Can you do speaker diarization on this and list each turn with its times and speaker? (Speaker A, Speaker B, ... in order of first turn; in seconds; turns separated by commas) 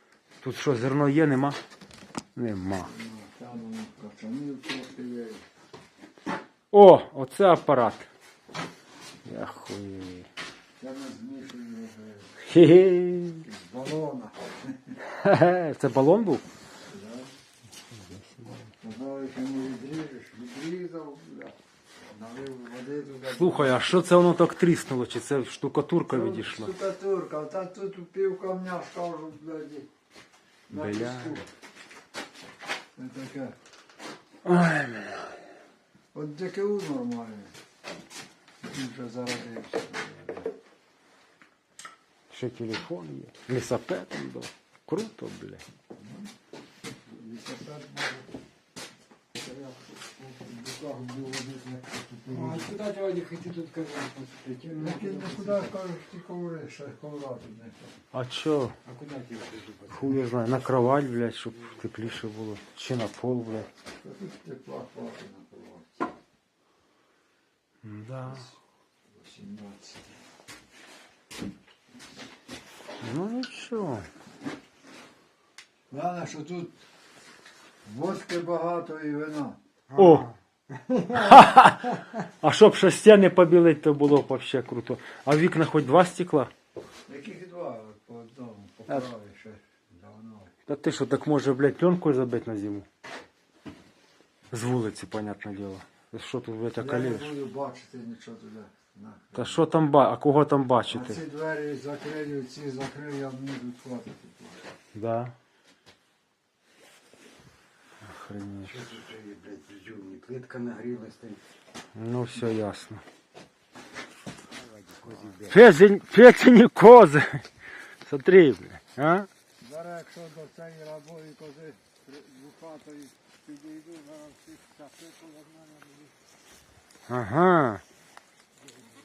Speaker A: 0.4-1.6, Speaker A: 2.4-2.9, Speaker B: 2.8-5.4, Speaker A: 6.7-8.1, Speaker A: 9.2-10.3, Speaker B: 10.8-12.3, Speaker A: 12.4-13.4, Speaker B: 13.4-14.9, Speaker A: 15.0-16.4, Speaker B: 16.9-17.3, Speaker A: 17.9-18.6, Speaker B: 18.8-21.6, Speaker B: 22.1-24.0, Speaker A: 23.2-26.7, Speaker B: 26.1-29.9, Speaker B: 30.7-31.5, Speaker A: 30.7-31.4, Speaker B: 33.0-33.5, Speaker A: 34.4-35.4, Speaker B: 36.1-37.5, Speaker B: 38.6-40.5, Speaker A: 42.3-45.6, Speaker B: 46.0-46.3, Speaker B: 47.1-48.3, Speaker B: 49.4-52.8, Speaker C: 52.3-55.6, Speaker B: 54.7-57.9, Speaker A: 58.1-58.8, Speaker C: 58.9-59.8, Speaker A: 59.9-63.7, Speaker B: 64.0-66.0, Speaker A: 67.8-68.5, Speaker B: 69.1-70.2, Speaker A: 73.0-74.1, Speaker B: 75.9-76.8, Speaker B: 77.8-79.6, Speaker A: 79.9-80.3, Speaker A: 81.1-86.5, Speaker B: 87.1-90.5, Speaker A: 90.7-92.9, Speaker A: 94.5-97.3, Speaker B: 96.8-99.6, Speaker A: 99.3-101.2, Speaker B: 100.9-104.6, Speaker A: 104.9-105.3, Speaker A: 108.0-108.9, Speaker C: 109.3-111.4, Speaker A: 112.0-113.0, Speaker C: 114.7-115.3, Speaker A: 115.3-117.5, Speaker A: 118.0-119.3, Speaker B: 119.6-126.1, Speaker A: 127.1-127.8